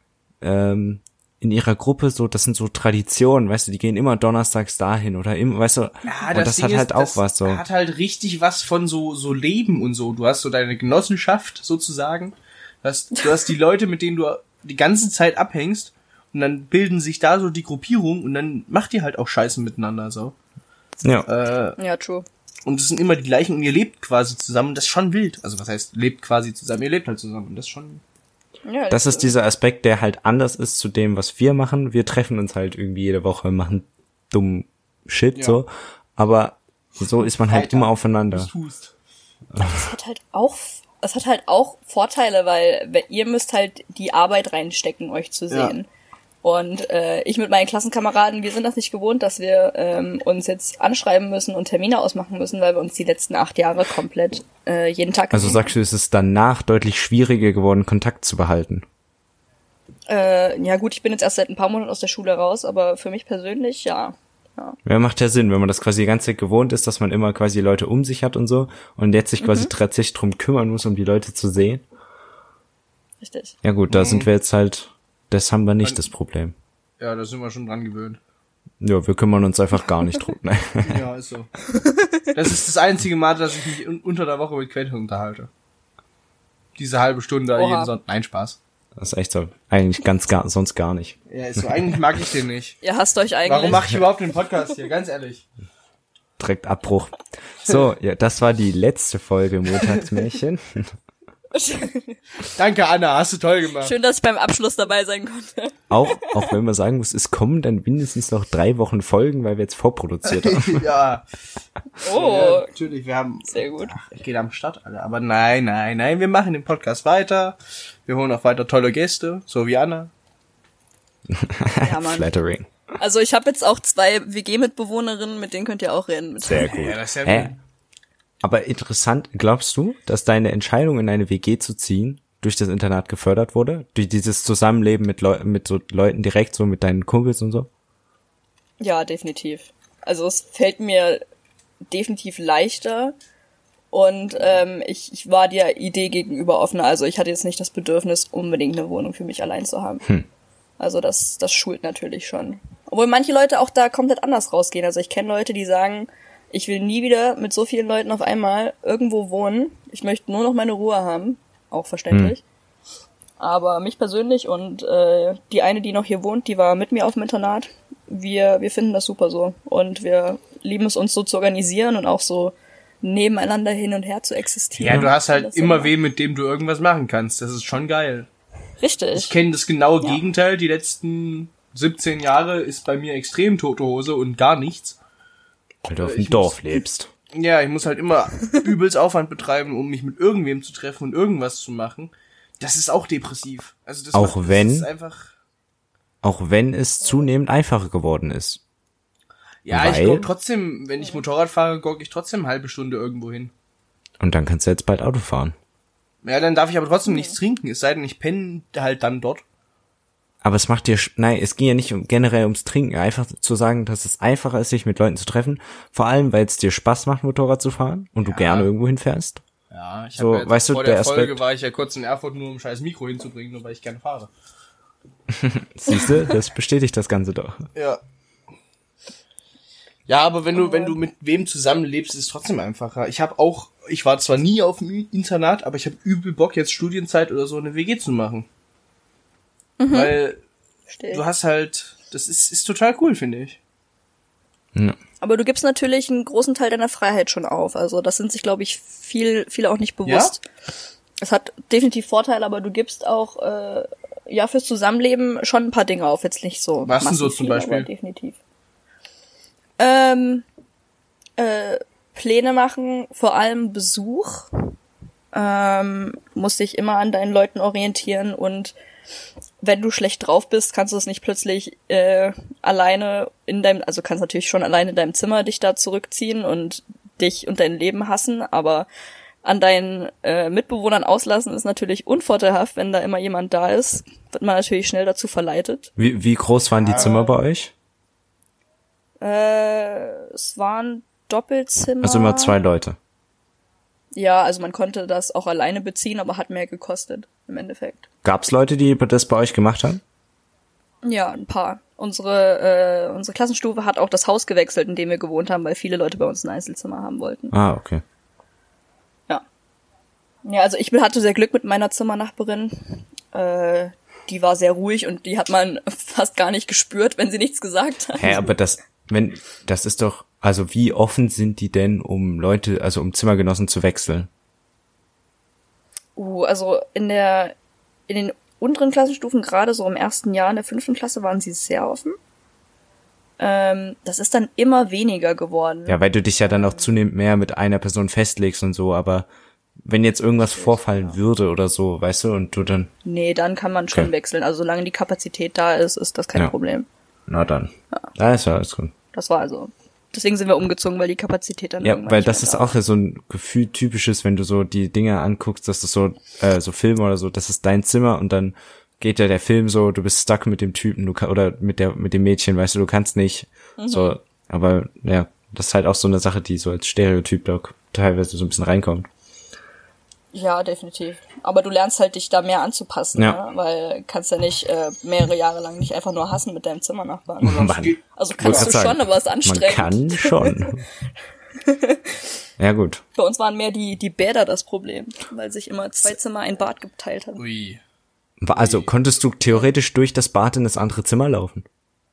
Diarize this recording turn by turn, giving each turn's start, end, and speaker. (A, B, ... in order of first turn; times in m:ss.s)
0:00.4-0:07.6 A
0:06.0-0:20.3 B
0:21.0-0:21.3 A
0:21.2-0:21.8 B
0:21.8-0:22.2 C
0:22.6-0:28.0 B
0:28.6-0:29.3 C
0:28.9-0:38.5 A
0:35.3-0:35.6 B
0:37.3-0:38.9 B
0:39.6-0:45.9 C
0:45.5-0:45.7 B
0:46.4-0:55.7 C
0:55.3-0:58.8 A
1:00.1-1:04.8 C
1:04.8-1:11.8 A
1:09.4-1:09.7 C
1:13.2-1:13.5 C
1:13.6-1:16.5 A
1:13.9-1:14.3 B
1:17.0-1:18.2 B
1:18.8-1:21.0 A
1:20.8-1:21.5 B
1:21.8-1:22.2 C
1:22.3-1:25.5 B
1:26.8-1:28.6 B
1:27.5-1:27.9 C
1:29.0-1:31.8 A
1:31.3-1:32.8 B
1:32.8-1:33.9 C
1:33.4-1:35.4 B
1:36.4-1:40.9 A
1:41.5-1:42.2 C
1:42.5-1:43.9 B
1:43.8-1:46.4 C
1:45.9-1:50.8 A
1:50.2-1:51.2 B
1:52.0-1:52.7 C
1:52.0-2:00.1 B
1:53.5-1:53.9 C
2:01.3-2:02.7 A
2:01.8-2:02.3 C
2:03.0-2:06.9 C
2:06.4-2:07.5 A
2:06.7-2:07.6 B
2:08.4-2:17.7 A
2:18.8-2:21.2 C
2:21.9-2:23.1 C
2:23.9-2:30.0 C
2:30.8-2:42.4 C
2:42.1-2:42.4 A
2:43.4-2:55.9 C
2:54.8-2:58.3 B
2:58.8-2:59.3 C
2:59.1-3:05.0 B
3:05.8-3:07.1 A
3:06.0-3:06.6 B
3:07.3-3:15.3 B
3:14.1-3:14.9 A
3:16.2-3:18.6 A
3:19.6-3:23.5 B
3:19.7-3:20.3 A
3:24.2-3:25.5 A
3:26.2-3:29.4 B
3:27.1-3:27.3 C
3:30.4-3:39.4 A
3:38.2-3:38.7 B
3:39.7-3:44.3 B
3:40.2-3:41.4 A
3:45.3-3:47.7 A
3:47.7-3:48.0 B
3:50.1-3:58.4 B
3:50.6-3:51.0 C
3:59.8-4:00.2 C
3:59.9-4:00.4 B
4:00.9-4:01.2 C
4:01.1-4:03.6 B
4:05.2-4:10.4 C
4:10.0-4:10.3 B
4:11.2-4:18.4 C
4:16.8-4:17.9 B
4:19.8-4:20.4 C
4:21.4-4:24.5 C
4:25.3-4:28.7 C
4:29.6-4:38.9 C
4:39.4-4:45.9 C
4:46.0-4:47.7 A
4:46.8-4:47.2 B
4:46.9-4:47.3 C
4:49.2-4:52.6 C
4:52.0-4:53.0 A
4:54.1-4:58.1 C
4:58.2-5:00.0 A
5:01.0-5:07.5 C
5:07.5-5:08.0 A
5:10.4-5:18.5 C
5:18.2-5:24.3 A
5:26.2-5:27.5 C
5:28.1-5:32.2 C
5:33.4-5:36.0 C
5:35.9-5:39.3 A
5:36.5-5:36.9 C
5:39.8-5:42.9 A
5:40.5-5:41.2 C
5:43.0-5:46.9 C
5:47.3-5:48.9 A
5:49.1-5:52.8 C
5:51.8-6:09.1 A
6:03.8-6:04.2 C
6:10.3-6:17.6 C
6:17.4-6:18.7 B
6:17.4-6:20.8 A
6:18.2-6:20.7 C
6:21.6-6:22.2 C
6:22.6-6:23.0 A
6:23.2-6:27.4 C
6:27.4-6:27.8 B
6:28.4-6:31.6 A
6:28.5-6:28.9 B